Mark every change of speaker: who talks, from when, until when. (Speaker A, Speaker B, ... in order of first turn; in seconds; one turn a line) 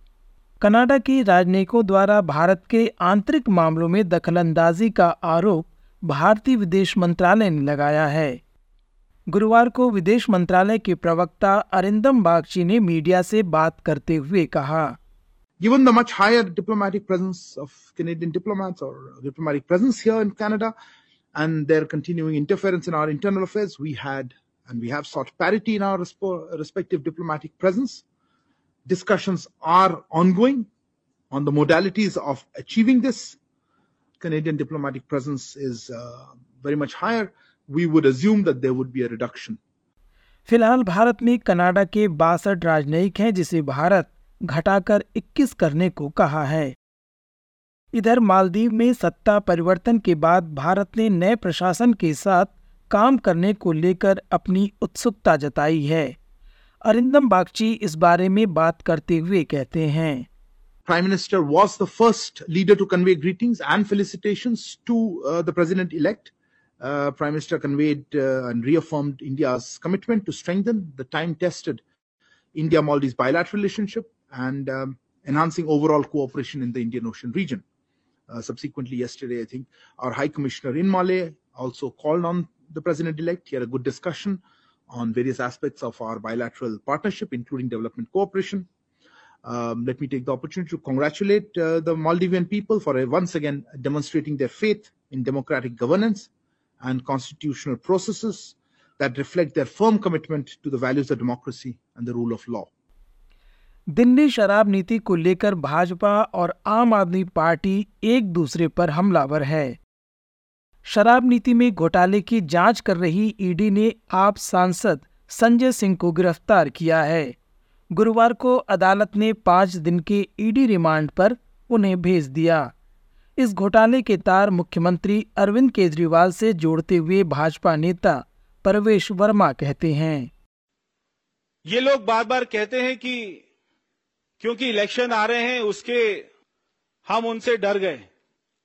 Speaker A: 0.6-8.4
Speaker A: 9.3-15.0
Speaker B: 15.6-20.7
Speaker B: 21.3-28.0
Speaker B: 28.9-30.7
Speaker B: 31.3-33.4
Speaker B: 34.2-39.6
Speaker A: 40.5-46.7
Speaker A: 47.9-56.1
Speaker A: 56.8-60.3
Speaker B: 60.9-71.8
Speaker B: 72.5-77.6
Speaker B: 78.3-88.7
Speaker B: 89.4-96.3
Speaker B: 96.8-102.7
Speaker A: 104.0-109.8
Speaker A: 110.8-117.3
Speaker A: 117.9-122.7
Speaker A: 123.4-130.3
Speaker C: 131.6-133.4
Speaker C: 134.4-136.2
Speaker C: 137.1-138.1